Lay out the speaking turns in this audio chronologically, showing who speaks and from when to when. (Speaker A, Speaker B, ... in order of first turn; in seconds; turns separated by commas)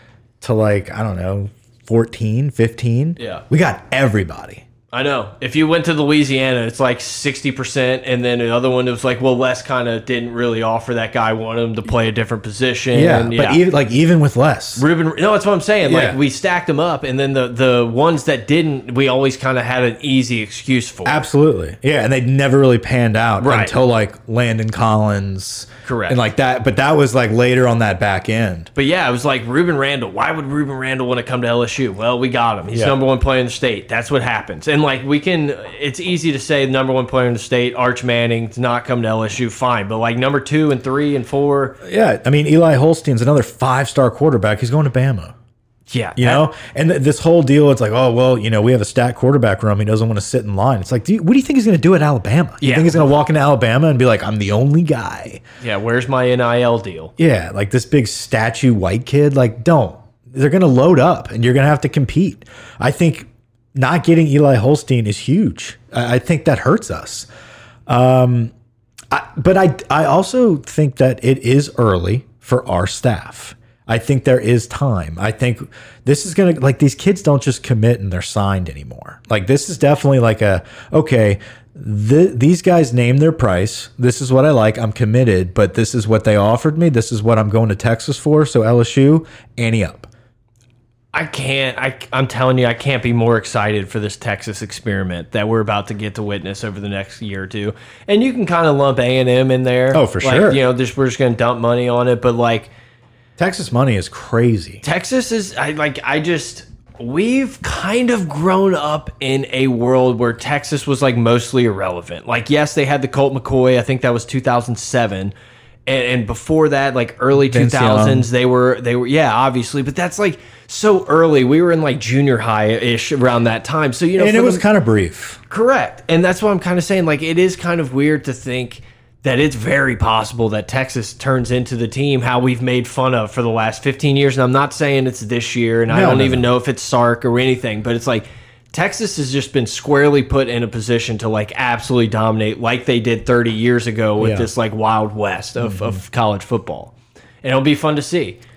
Speaker A: 0.4-4.7, Speaker B: 3.2-3.4, Speaker B: 4.9-13.6, Speaker A: 12.9-14.8, Speaker B: 14.8-21.2, Speaker A: 15.8-16.2, Speaker A: 21.1-28.7, Speaker B: 23.4-23.8, Speaker B: 25.9-26.2, Speaker B: 28.8-41.8, Speaker A: 41.8-45.3, Speaker B: 45.9-46.5, Speaker A: 46.2-55.4, Speaker B: 52.6-53.1, Speaker B: 55.6-57.1, Speaker A: 57.2-67.3, Speaker A: 67.9-68.5, Speaker A: 69.1-90.1, Speaker B: 91.1-102.7, Speaker A: 99.9-100.6, Speaker A: 103.4-104.8, Speaker B: 104.8-115.3, Speaker B: 115.9-124.6, Speaker A: 117.4-118.3, Speaker A: 124.2-125.4, Speaker B: 125.5-148.4, Speaker A: 135.9-136.5, Speaker A: 144.2-144.5, Speaker A: 145.6-146.0